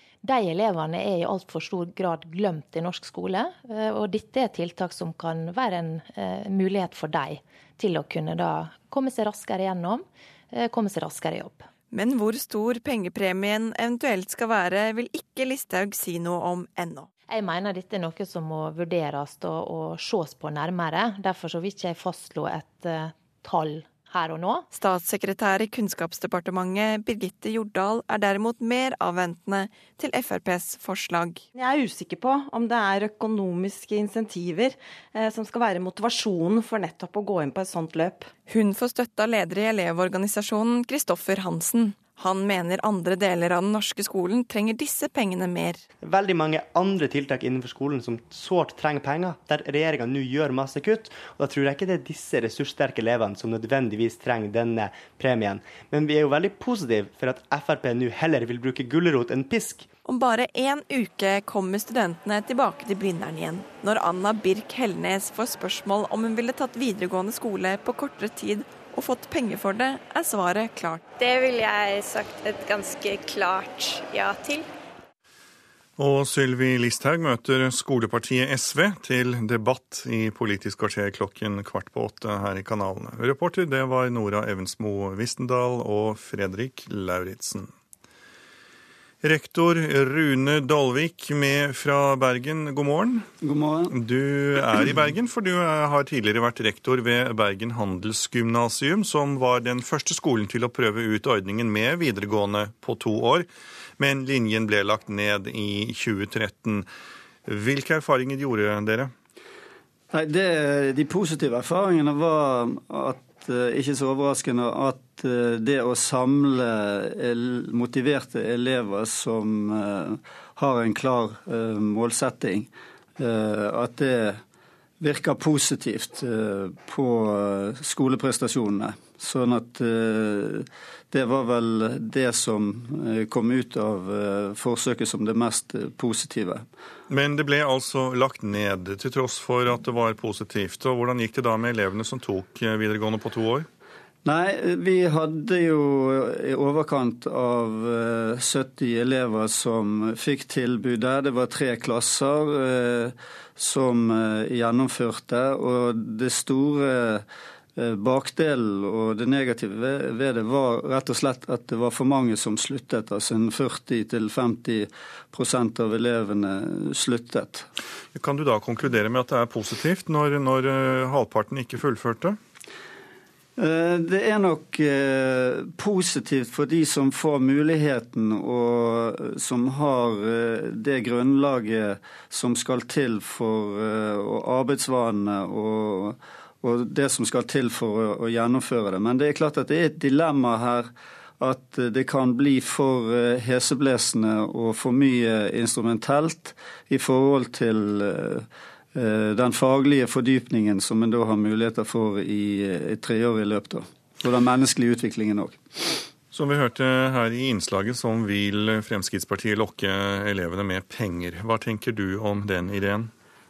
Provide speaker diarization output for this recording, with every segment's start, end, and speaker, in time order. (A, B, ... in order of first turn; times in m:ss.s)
0:00.2-0:11.7 A
0:11.9-0:17.1 B
0:17.3-0:24.7 A
0:24.7-0:31.4 B
0:31.5-0:38.3 C
0:38.5-0:45.8 B
0:46.0-0:59.9 D
1:00.0-1:11.0 B
1:11.2-1:14.7 E
1:16.0-1:27.7 F
1:29.2-1:33.3 F
1:33.4-1:33.9 G
1:33.9-1:43.5 F
1:44.0-1:46.8 F
1:47.4-1:49.1 F
1:50.1-2:04.4 G
2:05.0-2:16.6 G
2:17.1-2:23.7 F
2:24.2-2:37.2 G
2:37.8-2:47.7 G
2:48.1-2:52.4 F
2:53.6-3:26.0 G
3:26.3-3:33.1 F